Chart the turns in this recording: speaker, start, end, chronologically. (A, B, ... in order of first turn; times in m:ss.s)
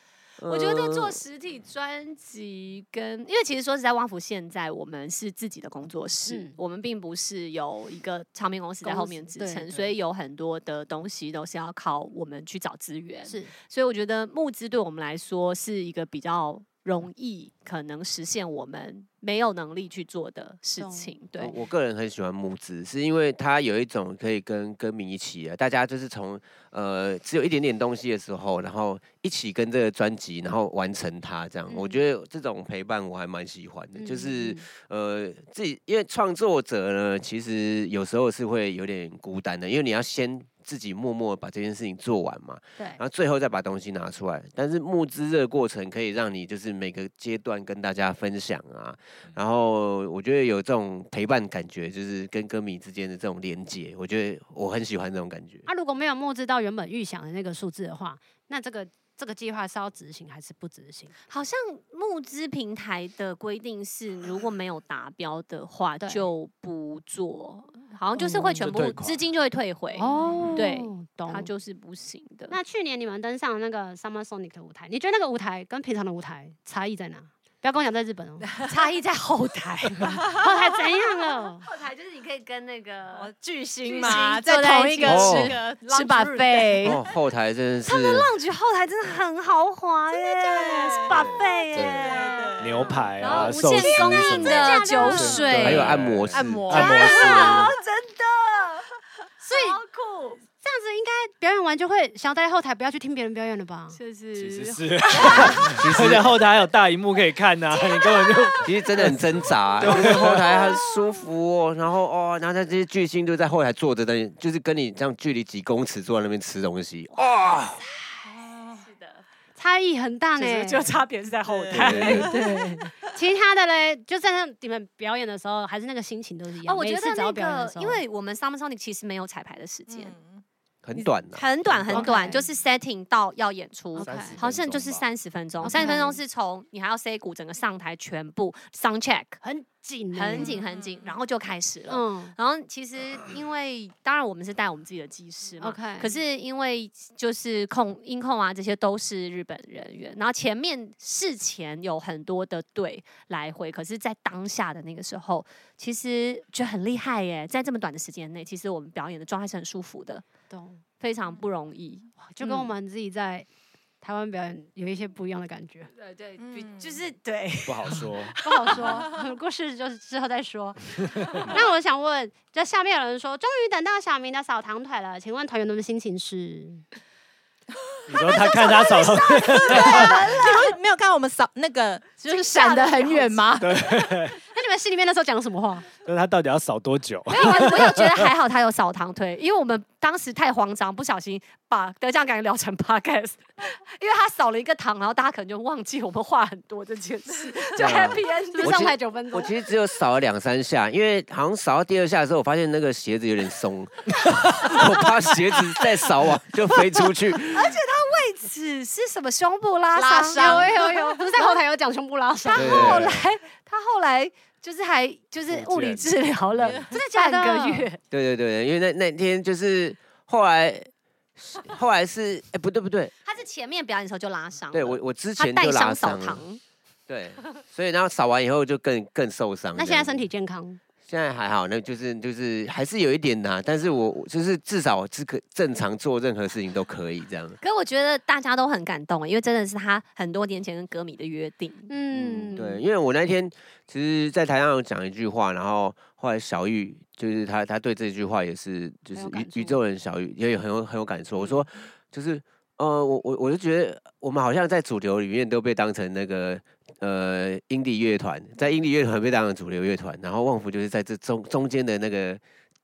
0:00.4-0:01.2 A
0:00.5-0:21.6 B
0:06.3-0:06.6 C
0:08.8-0:09.9 C
0:13.3-0:13.5 C
0:20.8-0:21.1 C
0:21.4-0:55.7 A
0:31.7-0:32.0 C
0:34.0-0:34.7 C
0:55.7-1:01.1 C
1:01.3-1:12.6 B
1:06.0-1:06.3 C
1:08.2-1:08.7 C
1:08.4-1:09.2 D
1:10.0-1:11.5 C
1:10.2-1:10.6 D
1:12.5-1:18.5 C
1:18.6-1:20.5 B
1:20.0-1:20.5 E
1:20.3-1:21.7 C
1:21.1-1:23.3 B
1:23.1-1:27.0 E
1:23.8-1:27.0 B
1:25.0-1:25.6 A
1:26.8-1:28.3 A
1:27.9-1:35.9 B
1:30.1-1:35.4 E
1:31.1-1:32.2 A
1:32.6-1:37.7 D
1:34.5-1:35.5 C
1:35.6-1:36.7 A
1:36.3-1:37.7 E
1:36.7-1:38.9 B
1:37.0-1:37.6 C
1:39.4-1:39.8 C
1:39.4-1:40.4 B
1:40.6-1:44.0 C
1:43.9-1:45.6 B
1:44.4-1:50.5 D
1:45.3-1:46.4 A
1:47.8-1:48.5 B
1:48.6-1:57.8 A
1:58.7-1:59.2 B
1:59.6-2:01.0 C
2:00.4-2:02.8 B
2:01.5-2:02.9 E
2:01.7-2:02.3 A
2:02.5-2:08.0 C
2:06.7-2:10.2 B
2:09.9-2:10.4 E
2:10.8-2:12.1 A
2:11.0-2:19.4 B
2:11.9-2:12.5 C
2:14.0-2:14.4 C
2:14.0-2:15.0 D
2:15.6-2:16.2 C
2:19.4-2:20.6 C
2:20.1-2:40.2 B
2:20.3-2:21.1 E
2:21.9-2:22.4 C
2:25.6-2:26.1 C
2:40.5-2:40.8 C
2:41.0-2:42.7 B
2:42.2-2:43.5 C
2:44.0-2:45.9 C
2:46.0-2:49.1 B
2:46.4-2:47.0 E
2:47.7-2:48.4 D
2:48.4-2:56.8 C
2:51.2-2:51.5 D
2:58.1-3:00.2 D
2:58.1-3:03.7 E
2:58.2-3:00.7 C
2:59.8-3:00.6 B
3:02.3-3:03.4 C
3:03.6-3:04.4 D
3:04.5-3:05.9 C
3:06.0-3:08.3 D
3:07.3-3:19.0 B
3:17.8-3:27.5 A
3:18.0-3:19.5 C
3:24.3-3:24.7 D
3:26.9-3:31.5 B
3:29.9-3:30.8 E
3:30.4-3:33.0 C
3:32.5-3:38.0 B
3:32.6-3:33.2 A
3:35.5-3:36.8 D
3:36.9-3:37.9 C
3:38.1-3:43.1 A
3:43.2-3:46.6 B
3:44.7-3:46.4 A
3:47.1-3:50.3 A
3:49.8-3:50.8 C
3:51.0-3:57.6 A
3:57.6-4:01.9 B
4:01.9-4:02.8 C
4:02.1-4:22.4 A
4:09.1-4:09.8 C